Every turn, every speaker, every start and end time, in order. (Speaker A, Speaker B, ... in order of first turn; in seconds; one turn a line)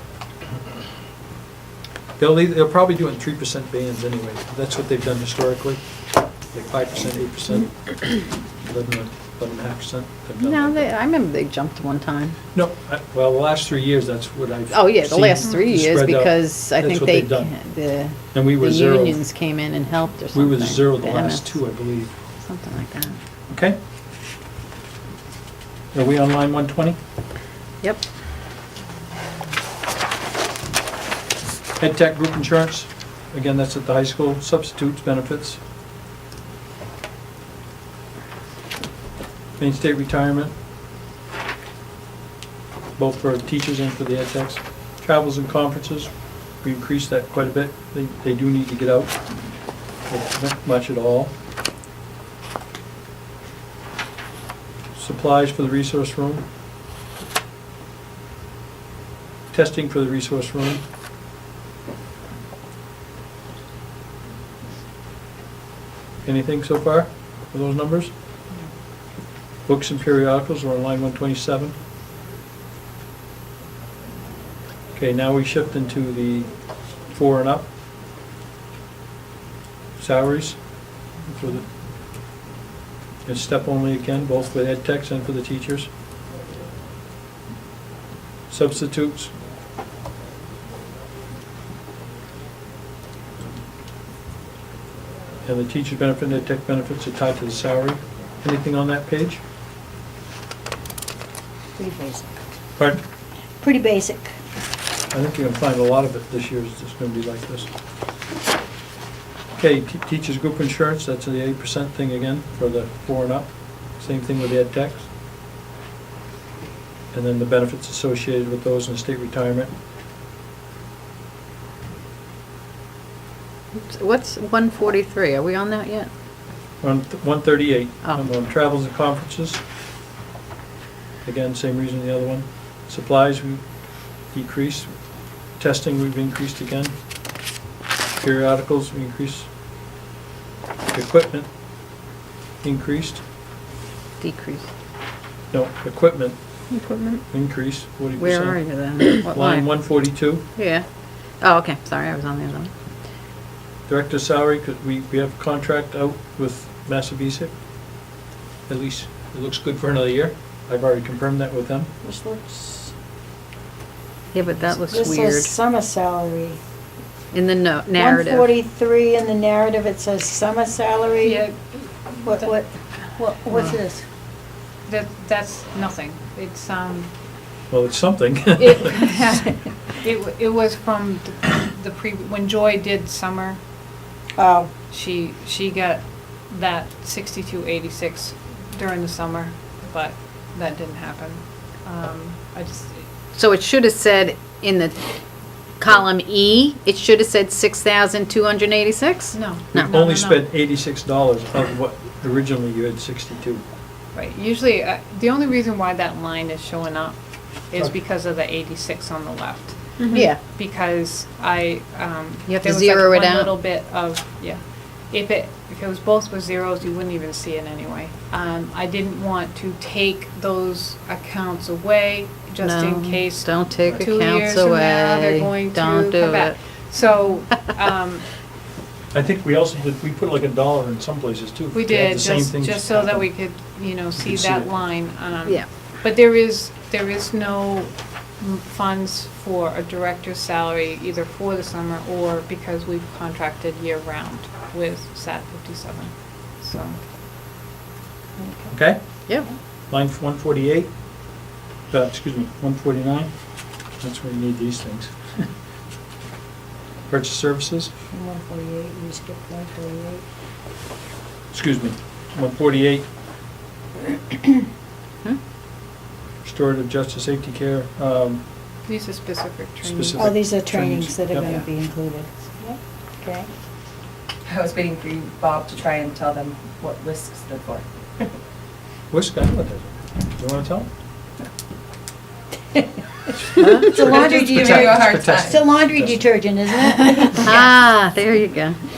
Speaker A: 2.2-5.8
Speaker A: 6.5-10.9
Speaker B: 10.4-12.4
Speaker A: 12.5-17.6
Speaker B: 14.7-21.6
Speaker A: 18.3-19.2
Speaker A: 20.3-22.1
Speaker B: 22.4-23.2
Speaker A: 23.5-23.8
Speaker A: 25.9-27.0
Speaker A: 31.8-35.6
Speaker A: 39.6-40.5
Speaker A: 43.0-49.2
Speaker A: 50.1-51.3
Speaker A: 55.0-56.5
Speaker A: 59.5-60.8
Speaker A: 66.2-68.1
Speaker A: 69.7-71.8
Speaker A: 75.0-77.7
Speaker A: 80.0-80.7
Speaker A: 81.2-81.7
Speaker A: 83.3-85.9
Speaker A: 88.5-89.3
Speaker A: 95.5-99.4
Speaker C: 101.8-102.4
Speaker A: 102.8-103.0
Speaker C: 103.6-104.3
Speaker A: 105.1-107.7
Speaker A: 109.6-115.1
Speaker A: 117.1-119.7
Speaker B: 123.7-126.1
Speaker A: 126.8-129.6
Speaker A: 131.2-133.6
Speaker A: 134.3-134.9
Speaker A: 135.6-136.9
Speaker A: 138.2-139.5
Speaker A: 140.9-141.5
Speaker A: 142.6-143.2
Speaker B: 144.2-144.7
Speaker A: 145.5-146.4
Speaker B: 146.7-147.2
Speaker A: 147.3-150.4
Speaker B: 148.2-149.9
Speaker B: 150.5-150.8
Speaker B: 151.4-152.7
Speaker A: 153.9-157.5
Speaker A: 158.7-161.9
Speaker C: 162.0-162.9
Speaker B: 164.3-165.5
Speaker C: 164.9-166.6
Speaker B: 167.3-168.5
Speaker C: 167.9-171.5
Speaker D: 171.2-172.5
Speaker C: 172.2-174.0
Speaker D: 174.9-177.1
Speaker A: 177.7-179.0
Speaker D: 178.6-183.6
Speaker C: 184.4-184.7
Speaker D: 184.9-193.1
Speaker B: 193.3-195.0
Speaker B: 195.8-199.9
Speaker D: 199.3-200.4
Speaker A: 199.8-203.6
Speaker D: 204.1-207.2
Speaker D: 207.7-228.2
Speaker B: 210.1-210.4
Speaker B: 212.5-213.5
Speaker B: 222.6-226.6
Speaker A: 229.1-233.3
Speaker D: 231.7-247.0
Speaker A: 234.2-234.7
Speaker C: 248.4-248.7
Speaker A: 248.7-249.2
Speaker A: 249.9-250.9
Speaker A: 251.9-253.3
Speaker A: 254.0-255.5
Speaker A: 257.1-257.9
Speaker C: 258.1-260.2
Speaker A: 261.5-263.1
Speaker A: 266.4-268.4
Speaker D: 268.9-270.3
Speaker A: 269.8-271.5
Speaker C: 270.1-273.5
Speaker E: 274.4-278.3
Speaker A: 279.1-280.9
Speaker B: 283.6-284.1
Speaker C: 283.6-287.8
Speaker A: 283.6-286.2
Speaker E: 284.1-285.6
Speaker B: 287.4-288.8